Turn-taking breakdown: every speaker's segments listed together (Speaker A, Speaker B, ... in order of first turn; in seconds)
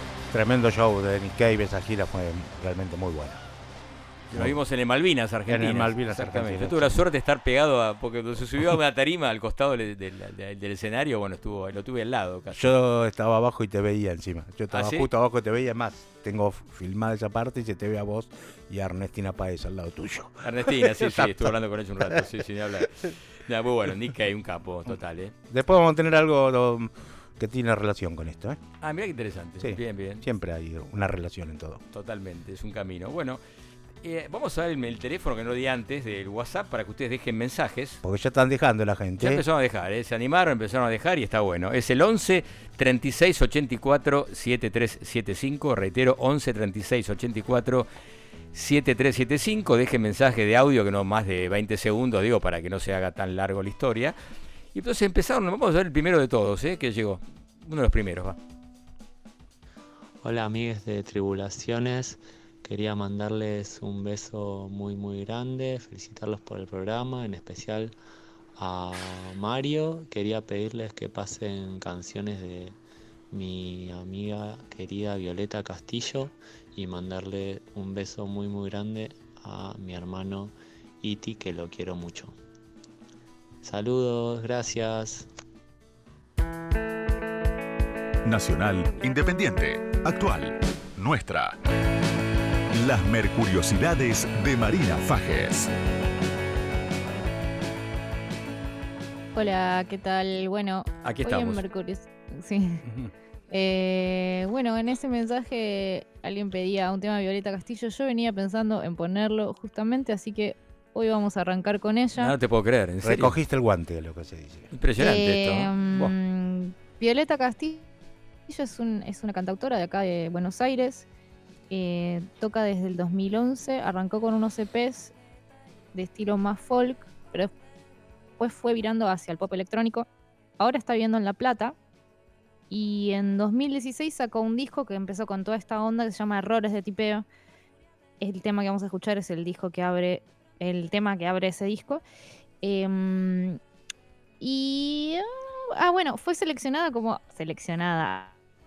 Speaker A: 0.3-3.4, 5.5-7.0, 12.5-21.5, 25.5-28.6, 29.6-31.8, 38.0-39.4, 102.8-103.1, 113.0-114.7
Speaker B: 4.3-12.7, 14.7-15.1, 20.4-25.3, 28.8-30.2, 31.9-33.4, 34.0-38.0, 39.2-47.9, 48.5-54.1, 54.7-58.4, 101.0-101.6, 112.2-113.3, 114.7-116.1
Speaker C: 60.2-67.9, 68.6-72.8, 73.3-82.3, 83.6-85.3
Speaker D: 88.2-91.6, 92.7-95.7
Speaker E: 99.3-102.8, 103.5-112.3, 115.0-117.8, 118.5-121.0, 121.7-125.1, 125.9-127.5, 128.4-130.1, 130.6-131.8, 132.7-137.2, 138.2-142.0, 142.6-143.6, 144.4-148.3